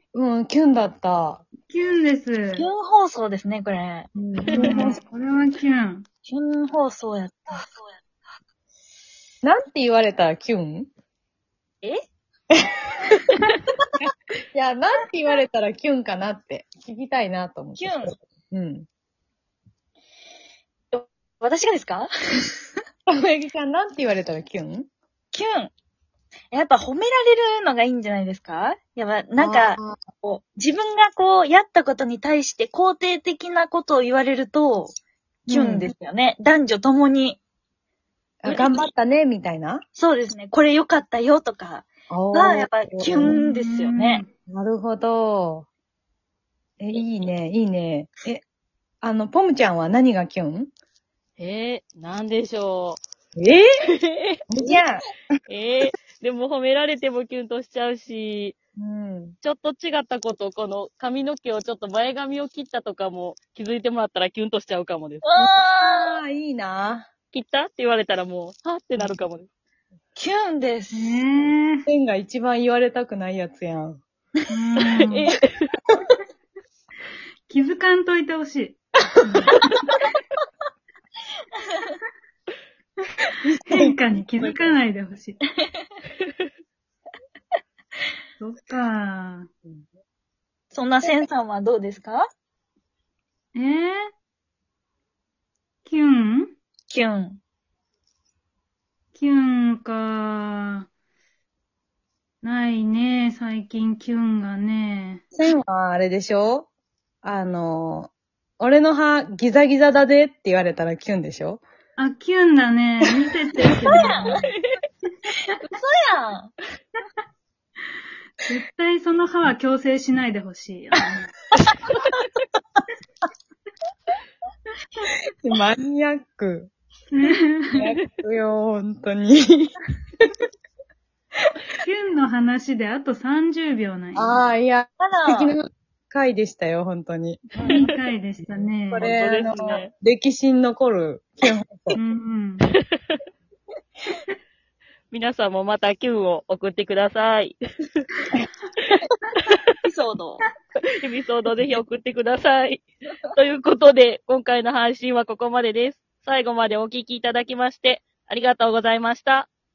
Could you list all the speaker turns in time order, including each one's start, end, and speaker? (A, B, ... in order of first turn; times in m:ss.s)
0:00.1-0:01.4 A
0:01.7-0:02.7 B
0:02.5-0:04.1 C
0:04.1-0:05.0 A
0:04.5-0:06.0 B
0:04.6-0:05.0 C
0:06.3-0:08.0 C
0:09.4-0:10.9 A
0:14.5-0:18.9 A
0:17.8-0:18.1 C
0:20.9-0:22.5 C
0:23.1-0:24.9 A
0:25.3-0:25.7 C
0:26.5-0:35.0 C
0:29.4-0:30.0 A
0:35.5-0:35.9 A
0:35.5-0:37.4 C
0:38.4-0:39.8 A
0:38.4-0:38.9 C
0:40.0-0:44.2 C
0:42.1-0:43.4 A
0:43.2-0:44.2 B
0:44.5-0:45.7 A
0:46.8-0:48.4 A
0:49.0-0:50.7 A
0:51.4-0:53.0 D
0:53.4-0:53.6 A
0:54.0-0:54.4 D
0:54.5-0:55.0 A
0:55.5-0:58.6 D
0:58.8-0:59.4 A
0:59.4-1:05.3 D
1:05.2-1:06.2 C
1:05.4-1:07.1 A
1:07.3-1:09.5 D
1:10.2-1:11.2 C
1:10.9-1:11.8 B
1:11.8-1:14.0 A
1:14.5-1:15.3 B
1:15.2-1:15.5 D
1:17.5-1:19.9 B
1:23.4-1:23.9 A
1:23.6-1:25.4 B
1:28.4-1:29.5 B
1:30.7-1:32.2 C
1:33.5-1:34.1 B
1:35.8-1:36.5 B
1:36.9-1:37.4 C
1:39.1-1:40.9 B
1:42.4-1:45.2 B
1:45.3-1:46.7 A
1:47.2-1:51.6 A
1:52.0-1:54.4 B
1:53.8-1:54.4 C
1:54.5-1:54.8 D
1:55.3-1:56.5 C
1:58.4-2:01.3 B
2:05.4-2:06.7 A
2:07.1-2:07.9 B
2:07.8-2:09.7 A
2:11.8-2:14.4 B
2:14.1-2:17.5 A
2:15.0-2:15.5 C
2:17.5-2:17.8 C
2:17.6-2:19.1 B
2:17.7-2:17.9 D
2:18.9-2:22.0 A
2:19.0-2:19.9 D
2:21.9-2:22.7 B
2:25.1-2:28.0 D
2:29.4-2:29.6 D
2:29.8-2:30.4 C
2:30.8-2:39.5 D